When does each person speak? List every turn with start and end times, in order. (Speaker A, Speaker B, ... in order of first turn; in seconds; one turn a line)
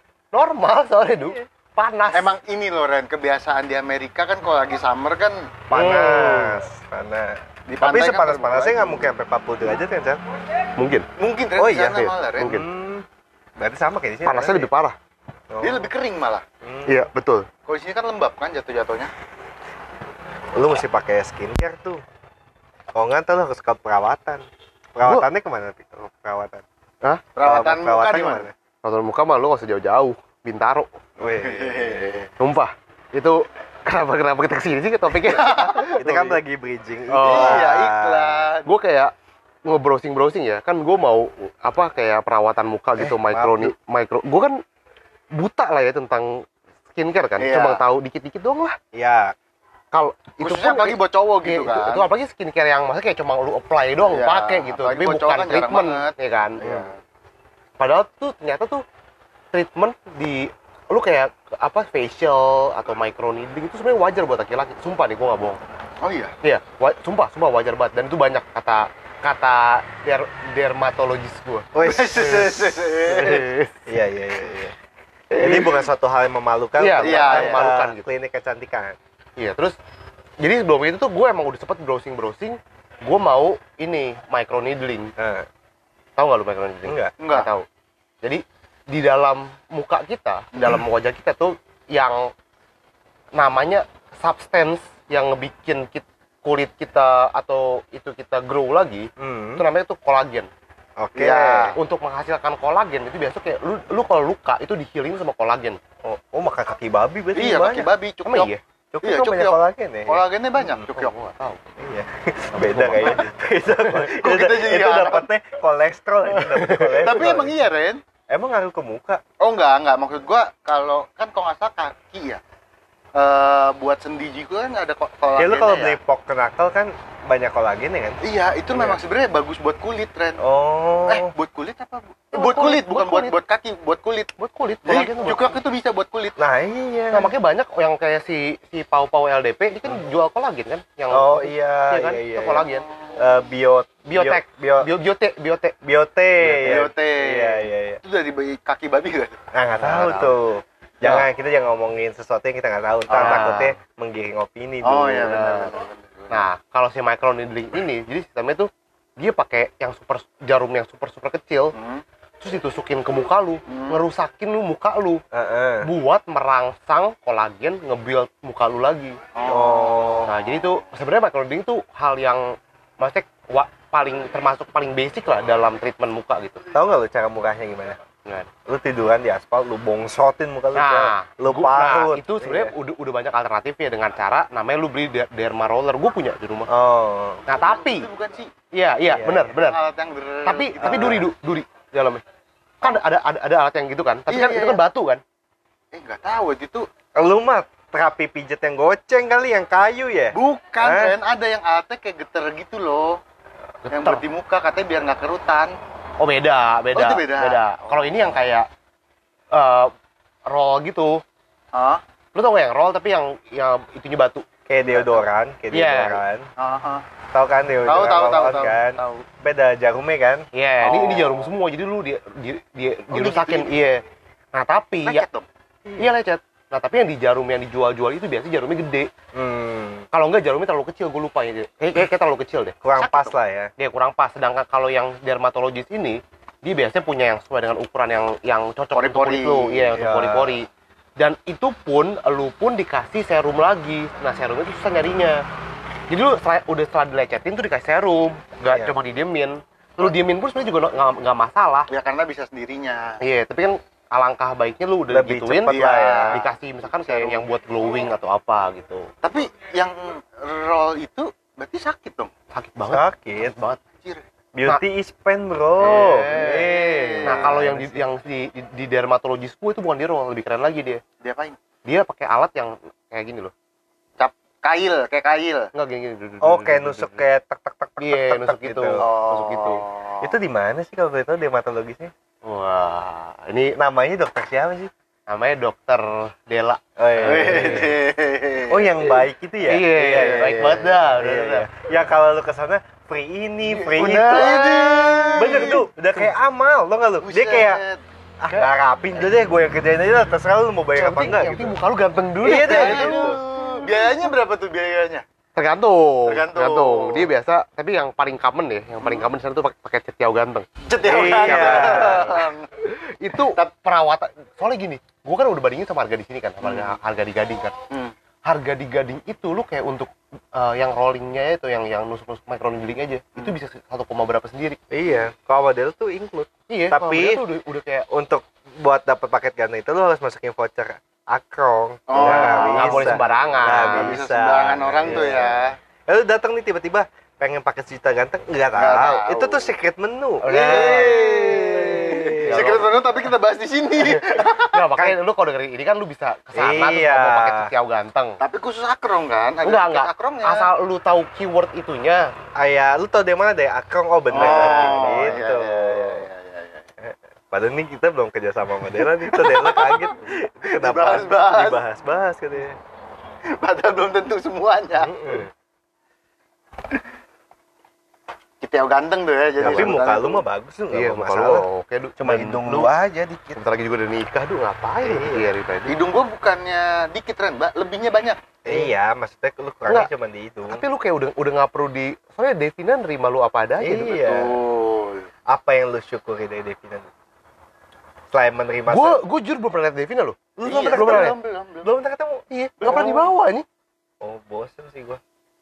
Speaker A: 0.3-2.4
Speaker B: 2.1-5.5
Speaker C: 5.7-10.2
Speaker A: 5.7-6.6
Speaker B: 7.7-9.1
Speaker A: 10.8-11.1
Speaker B: 11.2-12.6
Speaker C: 11.6-13.1
Speaker A: 12.4-12.7
Speaker C: 13.6-14.7
Speaker A: 14.2-15.0
Speaker C: 15.5-15.9
Speaker B: 15.6-16.4
Speaker C: 16.6-17.1
Speaker A: 16.9-17.5
Speaker B: 17.6-19.1
Speaker C: 20.6-22.0
Speaker C: 22.9-24.4
Speaker C: 24.9-26.6
Speaker A: 25.0-25.3
Speaker B: 27.4-28.5
Speaker C: 27.4-28.5
Speaker A: 28.8-30.9
Speaker C: 31.2-32.1
Speaker B: 31.4-32.3
Speaker A: 32.4-36.4
Speaker B: 35.2-35.9
Speaker C: 36.0-38.5
Speaker A: 37.1-37.7
Speaker B: 37.2-38.7
Speaker A: 38.6-39.1
Speaker A: 39.6-44.6
Speaker C: 43.0-43.7
Speaker A: 45.3-48.8
Speaker B: 47.4-47.8
Speaker C: 48.9-49.4
Speaker A: 49.9-56.8
Speaker B: 50.4-52.1
Speaker B: 54.1-57.0
Speaker A: 57.8-58.8
Speaker A: 59.5-65.6
Speaker B: 66.0-66.3
Speaker A: 66.4-72.4
Speaker C: 71.7-72.7
Speaker B: 71.8-73.5
Speaker A: 73.1-73.8
Speaker C: 73.9-74.8
Speaker A: 75.3-75.8
Speaker C: 75.4-79.0
Speaker A: 76.8-78.1
Speaker B: 77.0-77.7
Speaker A: 79.4-79.8
Speaker A: 80.4-85.1
Speaker C: 85.2-85.5
Speaker A: 86.2-87.7
Speaker C: 86.9-87.1
Speaker B: 87.2-87.5
Speaker A: 88.2-92.3
Speaker A: 93.4-100.5
Speaker C: 99.2-99.6
Speaker C: 101.0-101.7
Speaker B: 101.2-101.8
Speaker A: 101.2-105.8
Speaker C: 106.0-107.9
Speaker B: 107.3-108.5
Speaker A: 108.2-108.6
Speaker C: 108.9-110.2
Speaker B: 109.0-111.2
Speaker A: 110.9-111.7
Speaker C: 111.8-117.5
Speaker A: 112.5-113.3
Speaker B: 114.0-115.3
Speaker A: 116.3-117.4
Speaker B: 117.0-118.0
Speaker C: 118.3-119.2
Speaker B: 119.4-122.4
Speaker B: 123.2-126.0
Speaker C: 125.4-128.2
Speaker B: 128.2-130.4
Speaker C: 128.7-129.0
Speaker C: 130.4-131.3
Speaker B: 131.1-134.3
Speaker A: 132.3-133.4
Speaker A: 134.4-135.6
Speaker B: 134.9-136.4
Speaker C: 136.4-137.3
Speaker A: 137.1-142.9
Speaker C: 141.1-142.7
Speaker C: 143.2-144.9
Speaker A: 144.1-145.8
Speaker C: 145.8-148.0
Speaker A: 146.4-146.9
Speaker B: 146.6-149.4
Speaker C: 149.5-155.4
Speaker A: 149.8-150.3
Speaker B: 153.1-153.6
Speaker A: 153.1-153.8
Speaker B: 154.8-156.5
Speaker A: 155.2-155.7
Speaker A: 156.3-161.8
Speaker B: 161.8-162.0
Speaker A: 162.4-165.2
Speaker B: 163.7-164.0
Speaker C: 165.3-165.9
Speaker A: 165.8-169.2
Speaker B: 169.3-170.3
Speaker C: 169.4-170.3
Speaker A: 170.2-176.6
Speaker C: 176.7-178.0
Speaker C: 178.7-182.7
Speaker A: 180.8-186.7
Speaker C: 186.7-187.4
Speaker A: 187.5-188.1
Speaker B: 187.5-188.5
Speaker A: 188.7-189.8
Speaker C: 189.1-189.6
Speaker B: 189.7-191.2
Speaker A: 190.4-192.2
Speaker C: 190.8-191.3
Speaker A: 192.8-195.2
Speaker B: 194.3-194.8
Speaker B: 195.9-196.9
Speaker C: 197.2-201.2
Speaker B: 200.3-203.2
Speaker A: 203.9-204.2
Speaker B: 203.9-205.8
Speaker A: 206.2-208.7
Speaker B: 206.9-208.2
Speaker A: 209.5-209.9
Speaker A: 210.5-211.2
Speaker B: 211.7-212.0
Speaker A: 212.3-215.2
Speaker C: 214.7-216.5
Speaker A: 215.7-216.2
Speaker B: 216.6-217.0
Speaker C: 217.3-220.5
Speaker B: 217.9-219.2
Speaker A: 220.5-224.0
Speaker B: 220.8-221.5
Speaker B: 223.1-223.8
Speaker A: 224.5-225.2
Speaker B: 225.0-225.5
Speaker A: 226.0-229.1
Speaker C: 229.3-230.0
Speaker A: 230.1-232.8
Speaker C: 232.8-233.7
Speaker B: 233.0-233.3
Speaker A: 233.8-245.4
Speaker B: 238.9-239.9
Speaker C: 239.9-240.6
Speaker A: 246.1-251.9
Speaker B: 251.9-253.2
Speaker A: 253.2-259.1
Speaker C: 255.1-256.4
Speaker B: 255.7-257.4
Speaker B: 259.2-262.3
Speaker A: 262.5-263.8
Speaker C: 262.9-263.5
Speaker B: 263.8-264.2
Speaker C: 264.5-268.0
Speaker A: 265.8-271.0
Speaker B: 265.9-267.6
Speaker B: 271.2-271.6
Speaker A: 271.8-273.5
Speaker B: 274.2-275.7
Speaker A: 275.7-277.2
Speaker C: 276.4-279.1
Speaker A: 278.0-279.8
Speaker B: 279.0-280.3
Speaker C: 280.2-282.1
Speaker A: 282.4-283.8
Speaker C: 283.8-284.9
Speaker A: 285.3-287.9
Speaker C: 287.0-288.0
Speaker B: 287.2-289.0
Speaker C: 288.7-294.8
Speaker A: 289.7-291.7
Speaker A: 293.7-296.3
Speaker B: 294.1-295.8
Speaker C: 295.4-297.8
Speaker B: 297.2-298.0
Speaker C: 298.4-301.8
Speaker A: 300.9-304.1
Speaker C: 302.4-303.4
Speaker B: 302.4-305.2
Speaker A: 305.6-317.8
Speaker B: 306.3-307.3
Speaker B: 310.9-312.7
Speaker C: 311.0-312.5
Speaker B: 316.6-317.0
Speaker A: 318.5-324.8
Speaker C: 324.9-327.5
Speaker A: 326.7-328.1
Speaker C: 328.1-342.9
Speaker B: 332.1-335.8
Speaker A: 332.2-334.2
Speaker A: 335.1-335.4
Speaker B: 338.8-339.7
Speaker A: 340.4-342.9
Speaker B: 340.5-344.8
Speaker A: 344.0-348.4
Speaker C: 346.5-347.7
Speaker B: 348.4-350.7
Speaker A: 349.6-352.3
Speaker C: 352.6-356.3
Speaker B: 354.3-356.9
Speaker A: 354.3-355.4
Speaker C: 357.0-362.8
Speaker B: 359.3-361.8
Speaker B: 363.6-365.2
Speaker C: 365.0-365.5
Speaker B: 368.6-370.4
Speaker C: 369.6-371.7
Speaker A: 369.6-369.9
Speaker A: 370.9-372.9
Speaker C: 372.2-373.6
Speaker A: 373.5-376.0
Speaker C: 375.0-375.5
Speaker B: 375.9-378.5
Speaker C: 378.6-380.8
Speaker A: 380.7-384.2
Speaker C: 383.8-384.5
Speaker B: 384.1-385.3
Speaker C: 385.5-387.1
Speaker C: 388.3-389.2
Speaker A: 388.9-391.4
Speaker C: 390.6-393.2
Speaker B: 390.6-391.9
Speaker A: 392.5-393.6
Speaker B: 392.8-393.2
Speaker C: 394.2-395.2